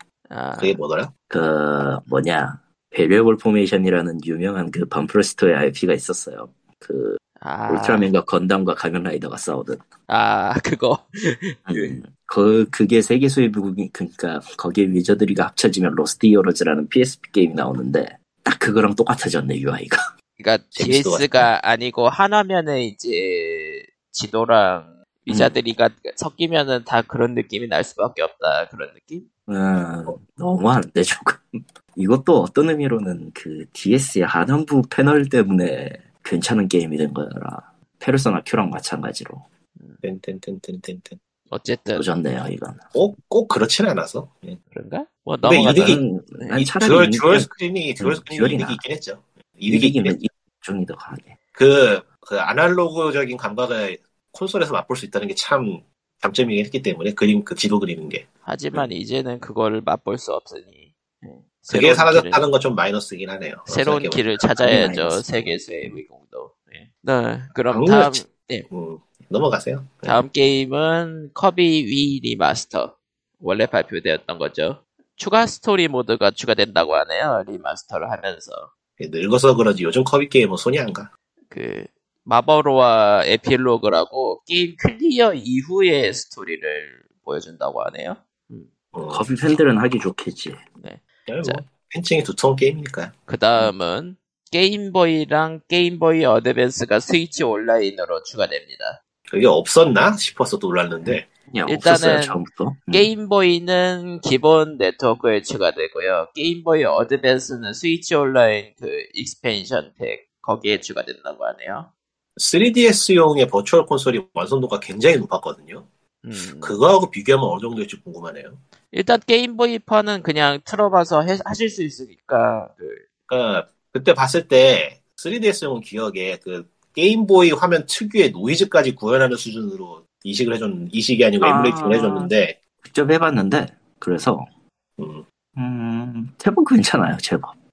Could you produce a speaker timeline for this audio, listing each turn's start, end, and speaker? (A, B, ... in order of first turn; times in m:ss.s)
0:00.3-0:00.8 A
0:00.6-0:01.1 B
0:01.3-0:09.9 C
0:07.4-0:08.1 A
0:10.1-0:12.0 A
0:11.6-0:20.0 C
0:20.4-0:29.2 A
0:20.7-0:21.5 B
0:25.3-0:25.6 C
0:29.5-0:39.4 C
0:40.0-0:41.2 B
0:41.5-0:42.1 A
0:41.9-0:42.9 C
0:42.9-0:44.6 B
0:44.7-0:46.6 A
0:45.4-0:46.0 B
0:45.7-0:47.5 C
0:46.6-0:50.2 B
0:48.0-0:48.8 C
0:49.7-0:51.3 C
0:51.5-0:58.8 B
0:58.4-1:02.4 A
1:01.7-1:04.8 B
1:03.7-1:08.7 A
1:04.6-1:06.0 C
1:07.7-1:10.2 B
1:10.0-1:18.7 A
1:19.0-1:21.1 B
1:21.5-1:28.7 A
1:28.9-1:29.2 B
1:29.1-1:30.6 C
1:30.8-1:31.6 A
1:31.3-1:33.1 B
1:33.3-1:39.0 A
1:39.3-1:41.3 B
1:41.5-1:43.1 C
1:41.7-1:51.9 A
1:52.4-1:55.8 B
1:56.2-1:56.8 A
1:56.6-1:58.6 B
1:58.9-2:03.0 A
2:03.3-2:12.6 B
2:11.4-2:14.5 C
2:15.0-2:15.2 B
2:15.6-2:17.5 C